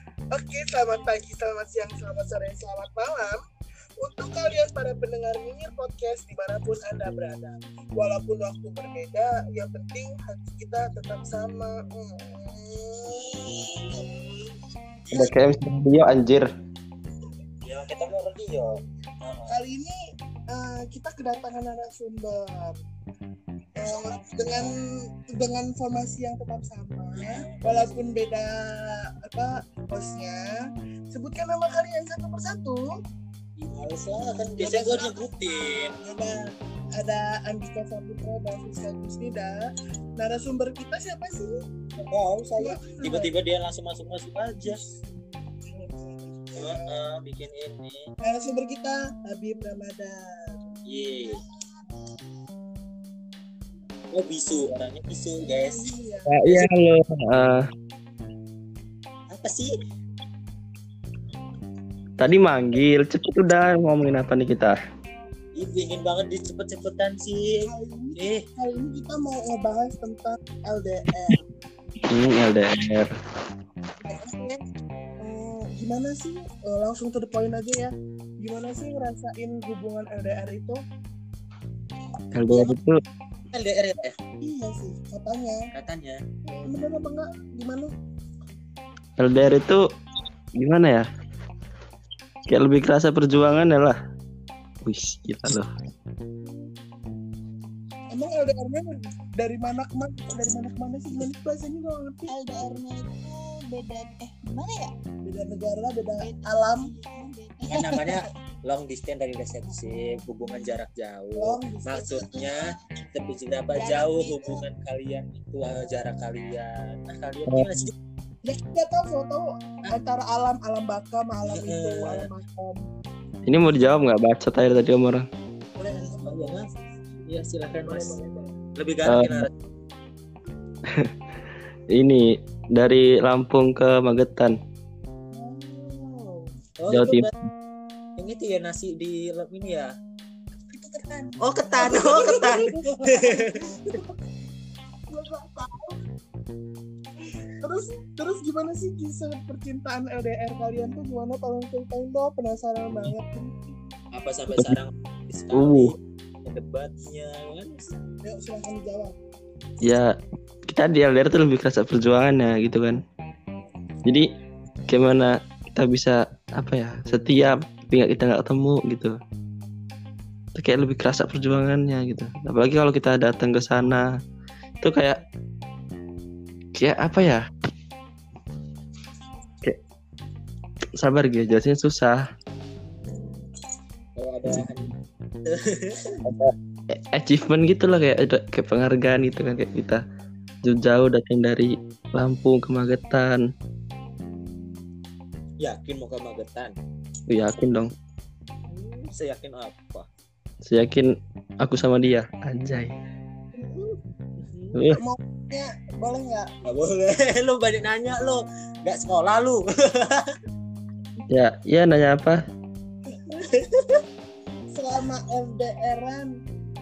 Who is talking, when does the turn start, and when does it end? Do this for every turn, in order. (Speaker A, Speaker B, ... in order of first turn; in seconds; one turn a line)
Speaker A: 0.3-3.4
Speaker A: 4.0-14.3
Speaker B: 15.1-16.4
Speaker C: 17.6-19.5
Speaker A: 19.5-19.9
Speaker A: 20.5-22.8
Speaker A: 23.8-24.7
Speaker A: 25.3-30.6
Speaker C: 27.2-28.1
Speaker A: 31.1-32.9
Speaker C: 33.6-36.0
Speaker A: 34.5-35.2
Speaker A: 36.0-36.4
Speaker A: 37.0-41.5
Speaker C: 42.0-44.8
Speaker A: 42.6-43.3
Speaker A: 44.6-47.0
Speaker C: 46.6-48.0
Speaker A: 48.2-50.7
Speaker C: 50.9-51.4
Speaker C: 54.1-55.9
Speaker A: 55.4-56.4
Speaker B: 56.3-57.6
Speaker C: 59.3-59.7
Speaker B: 62.2-64.8
Speaker C: 65.5-67.6
Speaker A: 67.6-71.4
Speaker C: 68.2-68.4
Speaker B: 72.1-73.1
Speaker A: 74.0-74.6
Speaker A: 75.2-80.8
Speaker B: 82.3-83.0
Speaker A: 82.5-82.8
Speaker C: 83.5-84.2
Speaker A: 84.4-85.6
Speaker C: 85.7-86.2
Speaker A: 86.5-87.9
Speaker B: 89.2-89.8
Speaker B: 90.6-91.0
Speaker B: 92.5-94.0
Speaker B: 94.8-95.7
Speaker A: 96.4-96.7
Speaker A: 98.1-102.3
Speaker D: 102.3-104.9
Speaker A: 105.2-106.9
Speaker D: 106.1-108.3
Speaker C: 107.7-117.9
Speaker A: 111.3-112.4
Speaker D: 112.5-112.7
Speaker D: 113.7-114.7
Speaker B: 117.5-117.9
Speaker A: 118.4-122.9
Speaker C: 121.4-122.3
Speaker B: 123.4-125.2
Speaker A: 125.8-126.8
Speaker C: 125.9-126.7
Speaker C: 127.3-128.2
Speaker A: 127.8-128.5
Speaker C: 128.8-129.5
Speaker B: 129.1-129.5
Speaker B: 131.9-134.6
Speaker A: 135.3-136.5
Speaker C: 136.8-137.3
Speaker B: 136.9-137.3
Speaker C: 138.2-139.9
Speaker A: 140.7-144.2
Speaker C: 141.4-143.9
Speaker A: 145.1-146.0
Speaker A: 147.6-153.5
Speaker C: 154.1-158.0
Speaker B: 155.5-155.9
Speaker A: 158.2-159.1
Speaker B: 159.8-160.1
Speaker B: 160.7-163.0
Speaker B: 164.9-169.1
Speaker B: 170.5-174.1
Speaker B: 174.8-175.2
Speaker B: 176.8-177.4
Speaker B: 181.0-182.2
Speaker C: 184.2-184.9
Speaker C: 185.5-186.2
Speaker B: 186.2-190.0
Speaker B: 190.6-193.4
Speaker A: 194.2-194.8
Speaker C: 195.6-196.8
Speaker B: 197.3-197.9
Speaker C: 198.7-200.1
Speaker B: 200.7-201.1
Speaker B: 201.6-202.9
Speaker A: 203.5-204.0
Speaker C: 204.4-205.0
Speaker B: 204.7-205.0
Speaker A: 204.9-206.5
Speaker C: 206.6-210.4
Speaker B: 211.3-212.4
Speaker A: 213.1-213.4
Speaker C: 213.5-214.0
Speaker A: 214.7-216.3